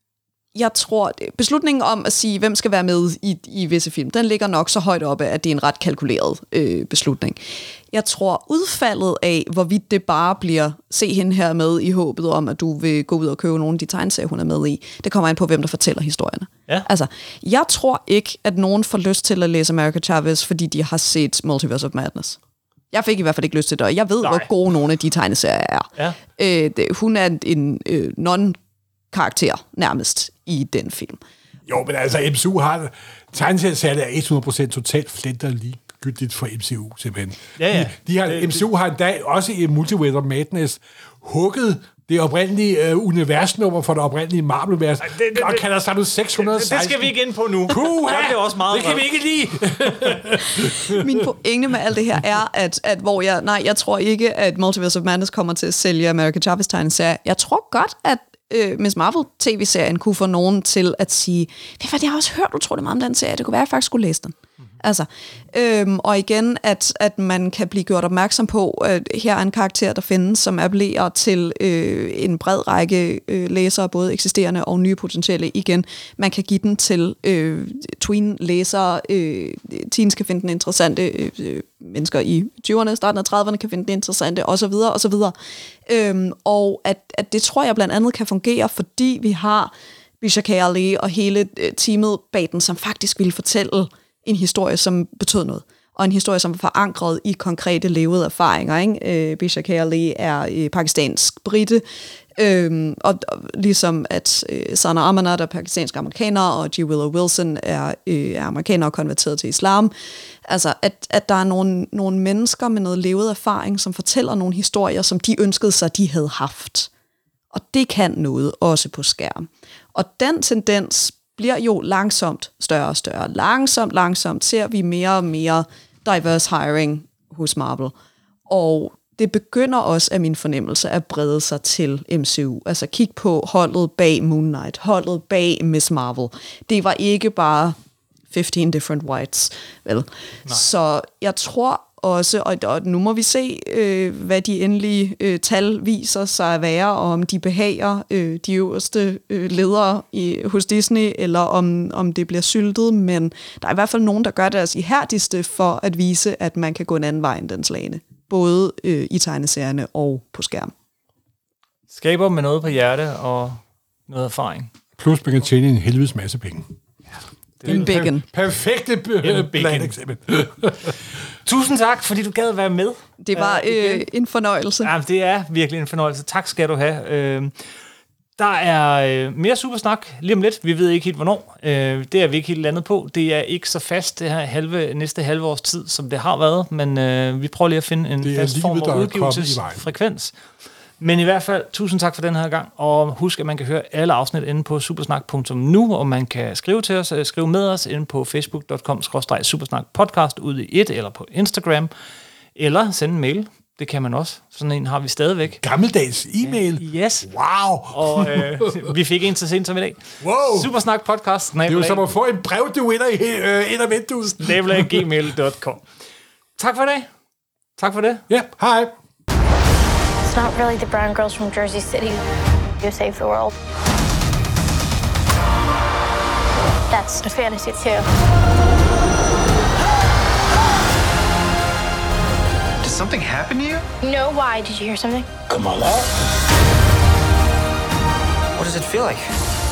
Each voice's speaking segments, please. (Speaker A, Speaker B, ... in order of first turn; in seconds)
Speaker A: 0.6-7.4, 7.9-22.4, 22.9-28.6, 29.1-31.2, 50.6-85.3, 85.9-101.8, 102.4-109.9, 110.5-116.9, 117.5-127.9, 128.5-137.8, 138.3-160.7, 167.7-168.2, 173.2-174.9
Speaker B: 24.2-24.5, 37.6-38.7, 45.0-45.6, 46.4-49.1, 161.9-164.7, 167.6-167.9, 169.2-169.9, 171.4-174.1, 174.8-177.6, 178.4-190.3, 191.0-201.9, 202.6-205.6, 206.4-207.3, 207.9-212.1, 214.4-215.8, 216.6-217.1, 217.8-218.2
Speaker C: 31.7-47.1, 47.7-51.2, 165.0-166.7, 167.6-171.0, 188.2-189.8, 205.6-208.9, 210.2-210.7, 211.7-215.1, 218.3-218.9
Speaker D: 220.2-222.2, 222.8-223.5, 226.9-228.1, 234.0-235.3
Speaker E: 232.8-233.9, 235.5-236.1, 238.6-239.3